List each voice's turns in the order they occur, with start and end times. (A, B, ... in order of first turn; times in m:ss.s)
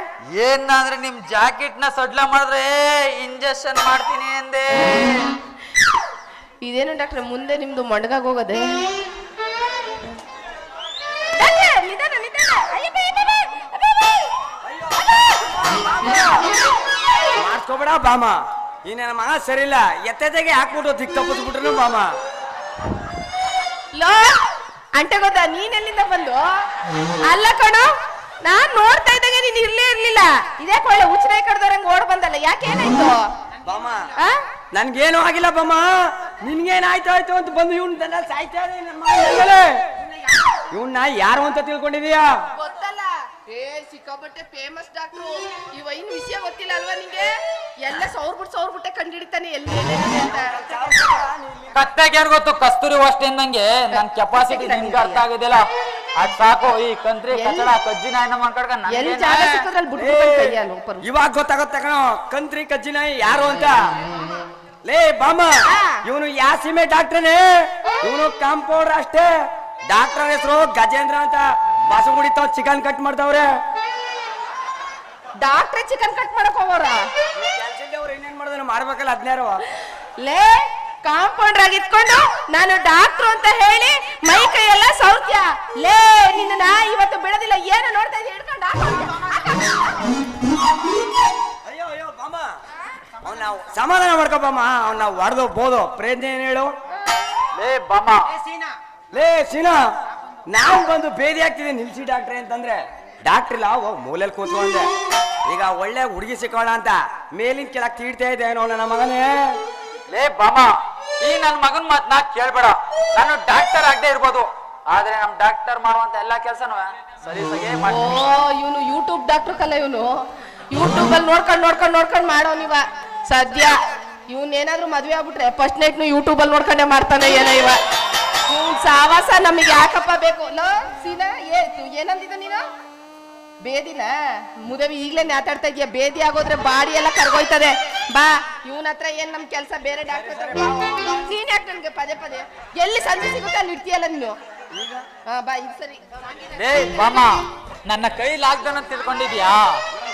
0:00.3-0:05.3 A
0:06.6-0:08.6 B
0:11.4-0:14.3 B
0:14.7-0:16.4 C
0:15.0-0:15.6 B
0:17.3-0:22.1 C
0:24.0-0:24.3 B
0:25.0-0:26.4 B
0:27.2-0:27.9 B
0:28.4-0:33.2 B
0:33.6-0:34.1 C
0:34.7-0:39.7 C
0:40.7-0:42.3 C
0:42.6-0:47.3 B
0:47.8-0:50.6 B
0:50.2-0:51.7 C
0:51.7-0:55.6 A
0:53.9-0:55.2 B
0:56.2-0:59.6 A
0:57.3-0:57.7 B
0:58.9-1:01.0 B
1:00.0-1:03.8 C
1:04.8-1:05.5 C
1:05.7-1:06.0 B
1:06.0-1:09.3 C
1:09.9-1:13.5 C
1:15.4-1:17.0 B
1:17.4-1:19.6 C
1:20.2-1:30.1 B
1:31.6-1:32.5 C
1:33.2-1:36.7 C
1:37.6-1:38.3 A
1:39.1-1:39.8 C
1:40.5-1:44.9 C
1:45.5-1:49.6 C
1:50.1-1:50.7 A
1:51.2-1:58.2 A
1:57.8-2:00.1 B
2:00.7-2:03.8 B
2:04.3-2:07.8 B
2:08.5-2:12.6 B
2:13.6-2:24.4 B
2:20.4-2:21.1 C
2:24.8-2:25.0 C
2:25.3-2:26.0 B
2:26.6-2:29.8 A